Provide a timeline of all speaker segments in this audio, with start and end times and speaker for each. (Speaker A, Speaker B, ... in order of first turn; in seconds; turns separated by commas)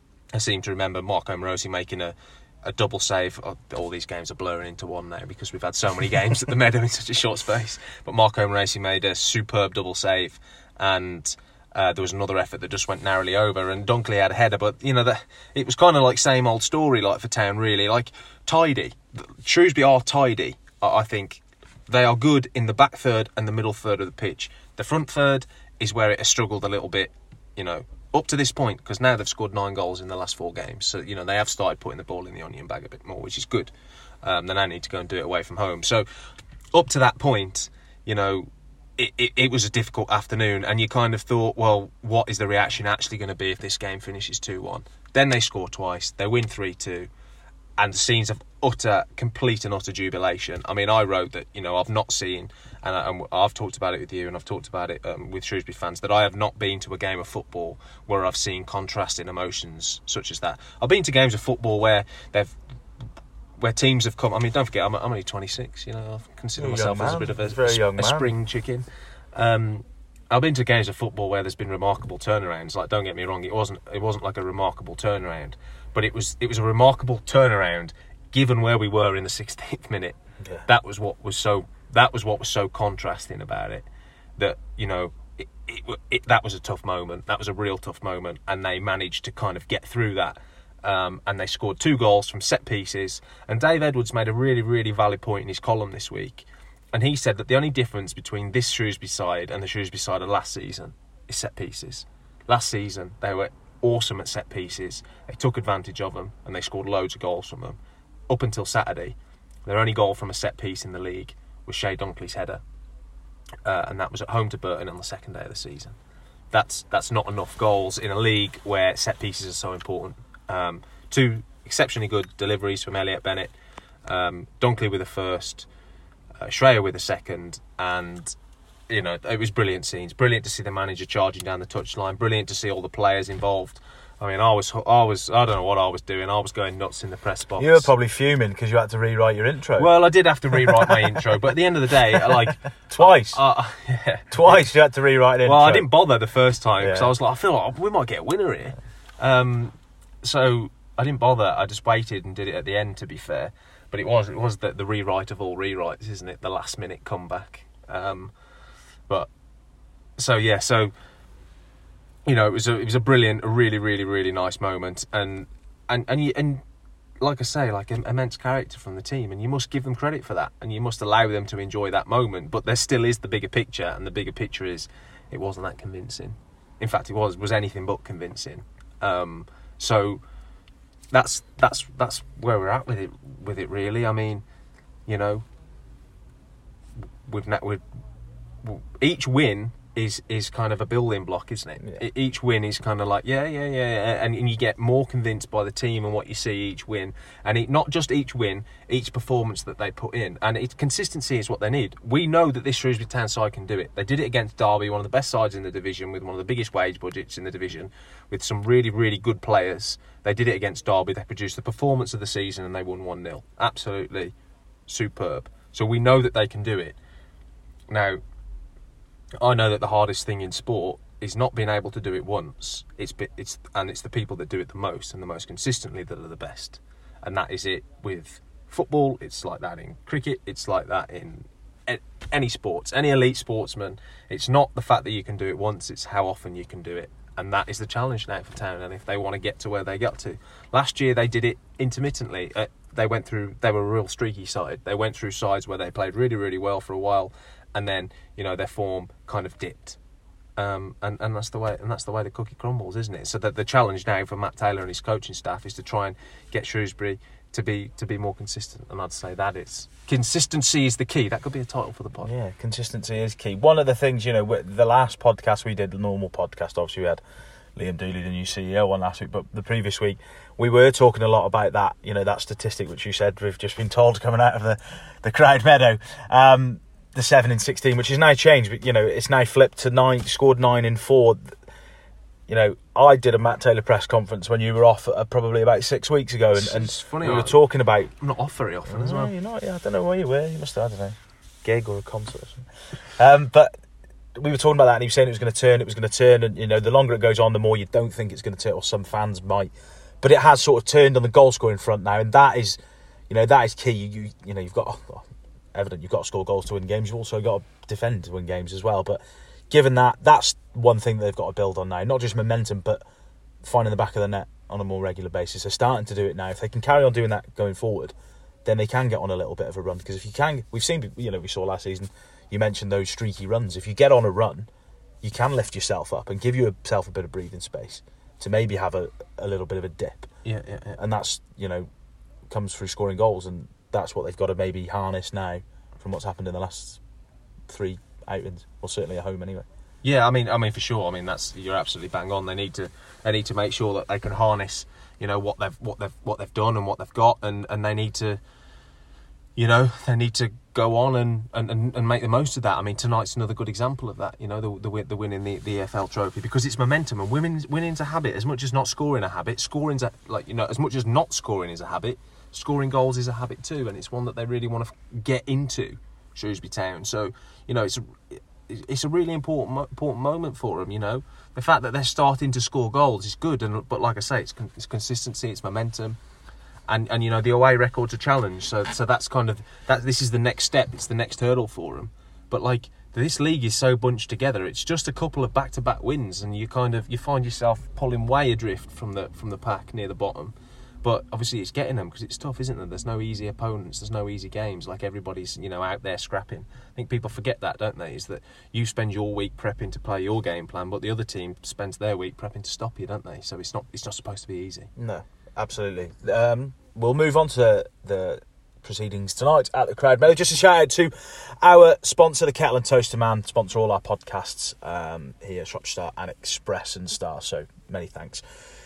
Speaker A: 0.3-33.7, Speaker A: 34.2-36.1, Speaker A: 36.7-47.1, Speaker A: 47.8-62.6, Speaker A: 63.6-83.9, Speaker B: 66.6-68.3, Speaker A: 84.4-107.8, Speaker A: 108.3-112.6, Speaker A: 113.6-116.0, Speaker A: 116.5-123.5, Speaker A: 124.1-125.7, Speaker A: 126.4-128.3, Speaker A: 128.9-137.9, Speaker B: 137.6-139.9, Speaker A: 139.8-144.7, Speaker B: 140.5-141.2, Speaker B: 142.1-143.4, Speaker B: 144.3-145.9, Speaker A: 145.4-158.3, Speaker B: 146.8-147.1, Speaker A: 160.2-160.9, Speaker A: 162.2-166.6, Speaker A: 167.2-180.2, Speaker A: 181.1-184.4, Speaker A: 185.1-185.5, Speaker A: 187.3-187.8, Speaker A: 188.6-214.3, Speaker A: 214.9-217.0, Speaker A: 217.9-218.2, Speaker A: 219.4-250.0, Speaker A: 250.6-262.3, Speaker B: 262.2-267.2, Speaker B: 267.8-281.6, Speaker B: 282.5-288.1, Speaker A: 286.5-287.6, Speaker A: 288.2-289.3, Speaker B: 288.9-293.7, Speaker B: 294.4-299.7, Speaker B: 300.2-302.8, Speaker B: 303.3-313.0, Speaker B: 313.6-324.7, Speaker B: 325.2-330.3, Speaker A: 330.4-331.0, Speaker B: 331.0-331.9, Speaker B: 332.5-337.0, Speaker B: 337.7-339.6, Speaker A: 340.0-348.4, Speaker A: 349.6-376.2, Speaker A: 376.9-404.9, Speaker B: 405.0-418.4